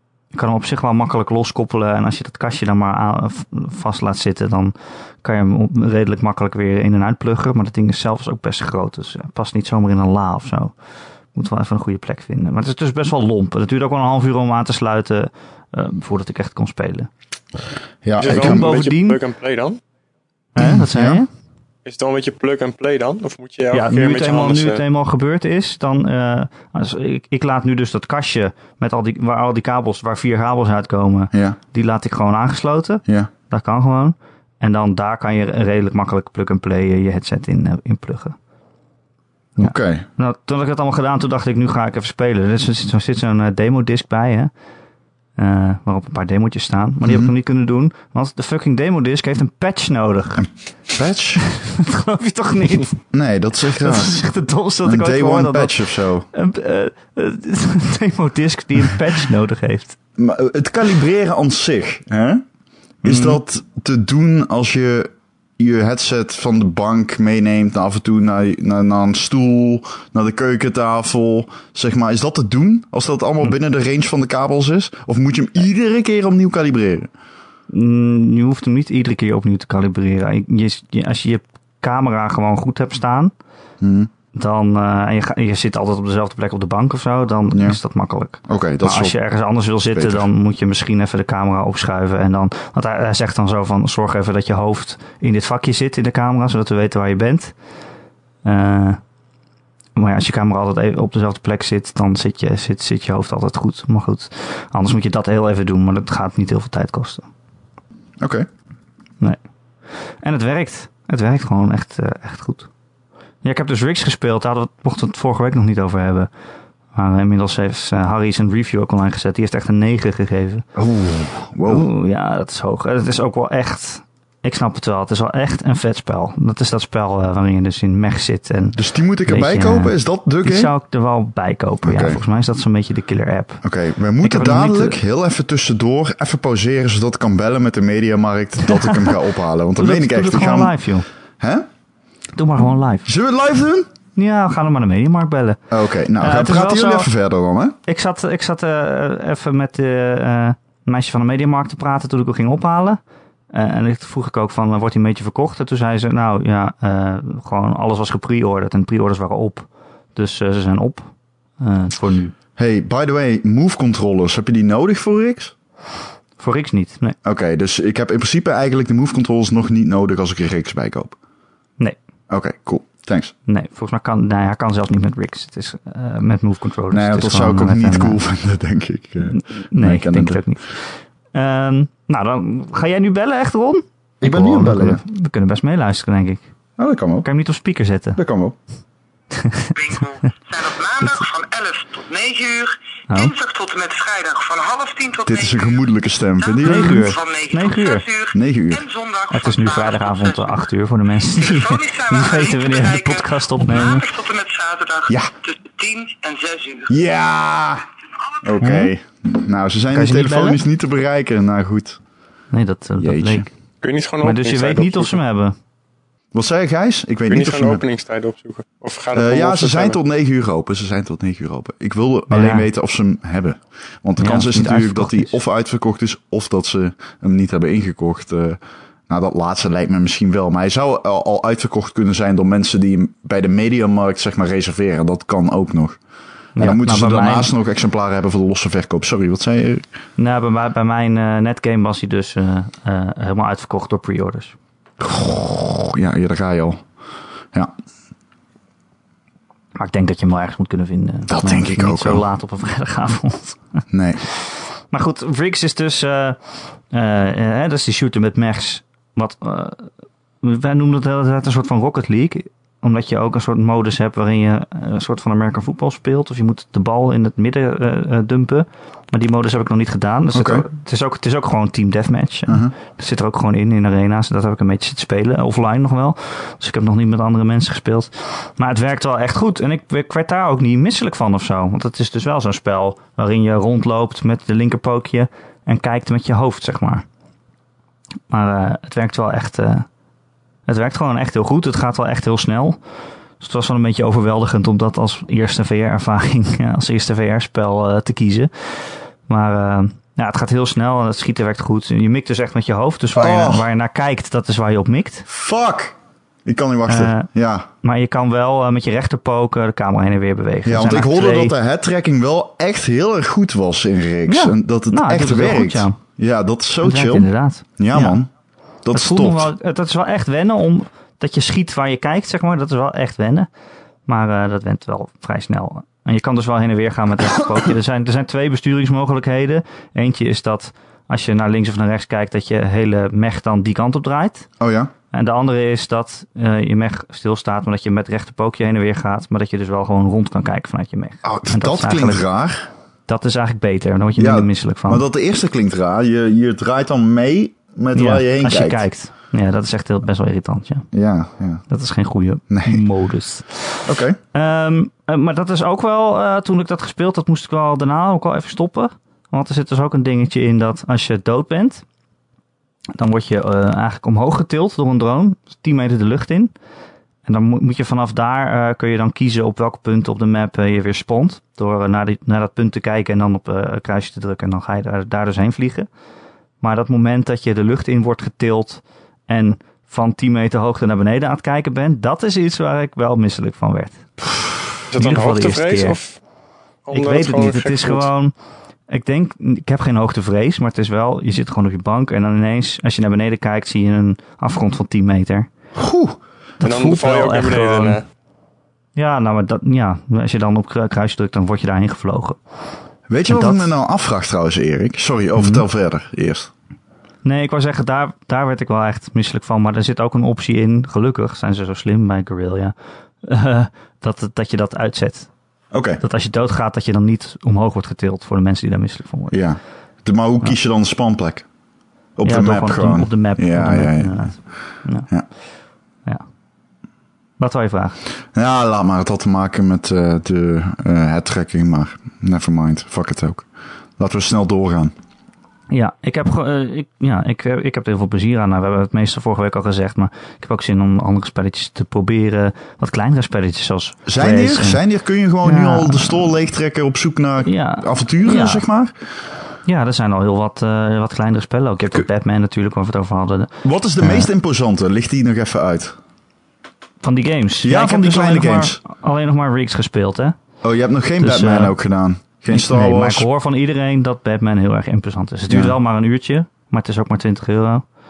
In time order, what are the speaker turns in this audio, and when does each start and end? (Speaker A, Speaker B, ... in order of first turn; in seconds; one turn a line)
Speaker A: 0.3-10.7
Speaker A: 11.3-17.1
Speaker B: 18.0-18.7
Speaker C: 18.2-19.8
Speaker A: 18.2-19.2
Speaker A: 20.6-21.3
Speaker B: 20.6-21.2
Speaker C: 21.9-24.8
Speaker A: 23.7-38.4
Speaker B: 31.3-31.6
Speaker A: 39.6-44.5
Speaker B: 39.6-40.1
Speaker A: 45.4-50.5
Speaker B: 47.0-47.3
Speaker B: 50.9-51.4
Speaker A: 51.5-53.0
Speaker B: 53.1-54.2
Speaker A: 53.8-55.8
Speaker B: 54.8-56.3
Speaker A: 56.3-60.0
Speaker B: 60.2-62.4
Speaker A: 63.0-63.4
Speaker B: 63.0-77.1
Speaker A: 77.7-83.3
Speaker B: 83.8-84.1
Speaker A: 84.3-97.5
Speaker B: 87.5-87.8
Speaker B: 88.5-89.2
Speaker B: 89.9-90.3
Speaker A: 98.5-99.0
Speaker A: 100.0-107.3
Speaker B: 108.2-108.5
Speaker A: 110.2-112.7
Speaker A: 113.4-116.3
Speaker A: 117.0-120.7
Speaker B: 120.8-121.9
Speaker A: 121.7-133.6
Speaker B: 128.8-130.7
Speaker B: 131.8-132.2
Speaker B: 133.6-140.8
Speaker A: 134.2-135.0
Speaker A: 138.7-139.0
Speaker A: 139.8-141.1
Speaker B: 141.4-141.7
Speaker A: 142.4-143.1
Speaker B: 143.1-143.9
Speaker A: 144.2-145.6
Speaker B: 145.7-147.8
Speaker A: 146.2-147.1
Speaker A: 147.9-153.0
Speaker A: 153.5-162.4
Speaker B: 162.6-165.5
Speaker A: 166.4-167.2
Speaker B: 167.2-171.2
Speaker B: 172.3-173.3
Speaker A: 173.5-178.2
Speaker B: 176.9-180.4
Speaker A: 179.3-186.4
Speaker B: 184.2-185.0
Speaker B: 186.8-187.3
Speaker A: 187.2-188.2
Speaker B: 188.2-188.6
Speaker A: 189.4-189.7
Speaker D: 189.7-195.8
Speaker B: 195.3-197.1
Speaker D: 196.4-200.6
Speaker A: 196.6-198.1
Speaker B: 198.3-198.9
Speaker A: 199.3-204.1
Speaker D: 201.3-207.0
Speaker B: 206.9-207.9
Speaker B: 208.4-212.0
Speaker A: 208.6-208.9
Speaker A: 209.9-210.6
Speaker A: 212.5-213.5
Speaker B: 213.0-213.5
Speaker C: 213.8-215.2
Speaker A: 214.2-215.6
Speaker B: 216.3-217.8
Speaker C: 217.3-220.0
Speaker B: 219.1-236.0
Speaker A: 222.3-222.7
Speaker A: 224.2-225.3
Speaker A: 236.6-237.5
Speaker B: 236.6-239.8
Speaker A: 240.2-244.6
Speaker B: 245.0-246.8
Speaker A: 249.8-253.8
Speaker B: 251.3-252.2
Speaker B: 253.9-254.2
Speaker A: 254.9-256.4
Speaker A: 256.9-259.9
Speaker A: 260.4-287.1
Speaker B: 270.3-270.7
Speaker B: 272.5-272.7
Speaker A: 288.3-289.9
Speaker A: 290.7-292.8
Speaker A: 293.4-305.3
Speaker B: 303.2-303.7
Speaker B: 305.3-307.7
Speaker A: 306.9-307.3
Speaker A: 307.8-311.6
Speaker B: 310.6-318.3
Speaker A: 314.3-316.0
Speaker A: 316.8-318.2
Speaker B: 318.9-319.5
Speaker A: 318.9-323.5
Speaker A: 324.1-334.5
Speaker B: 334.6-334.9
Speaker A: 335.1-342.2
Speaker B: 341.2-342.7
Speaker A: 343.1-345.1
Speaker B: 344.2-348.9
Speaker A: 347.9-350.9
Speaker B: 350.9-351.6
Speaker A: 351.7-361.8
Speaker B: 352.5-352.8
Speaker B: 353.9-354.2
Speaker A: 363.0-366.5
Speaker A: 367.3-375.9
Speaker A: 376.6-384.1
Speaker C: 384.9-386.2
Speaker A: 384.9-386.0
Speaker C: 386.9-388.1
Speaker A: 386.9-388.3
Speaker A: 388.9-395.5
Speaker B: 395.8-396.2
Speaker A: 396.6-398.0
Speaker C: 396.6-398.1
Speaker A: 399.0-402.4
Speaker B: 403.1-406.5
Speaker A: 403.3-403.7
Speaker A: 405.4-405.6
Speaker A: 407.2-415.3
Speaker B: 415.7-416.0
Speaker A: 416.0-419.4
Speaker B: 419.3-421.5
Speaker B: 422.2-424.4
Speaker A: 422.2-425.1
Speaker A: 427.4-428.0
Speaker B: 428.3-433.5
Speaker B: 434.0-434.9
Speaker A: 435.7-444.8
Speaker B: 444.1-448.9
Speaker A: 445.4-446.3
Speaker A: 447.4-448.6
Speaker A: 449.6-454.3
Speaker B: 453.6-455.9
Speaker A: 457.0-460.4
Speaker B: 457.6-458.8
Speaker B: 460.6-463.3
Speaker A: 461.2-461.8
Speaker A: 462.5-467.9
Speaker B: 465.5-465.7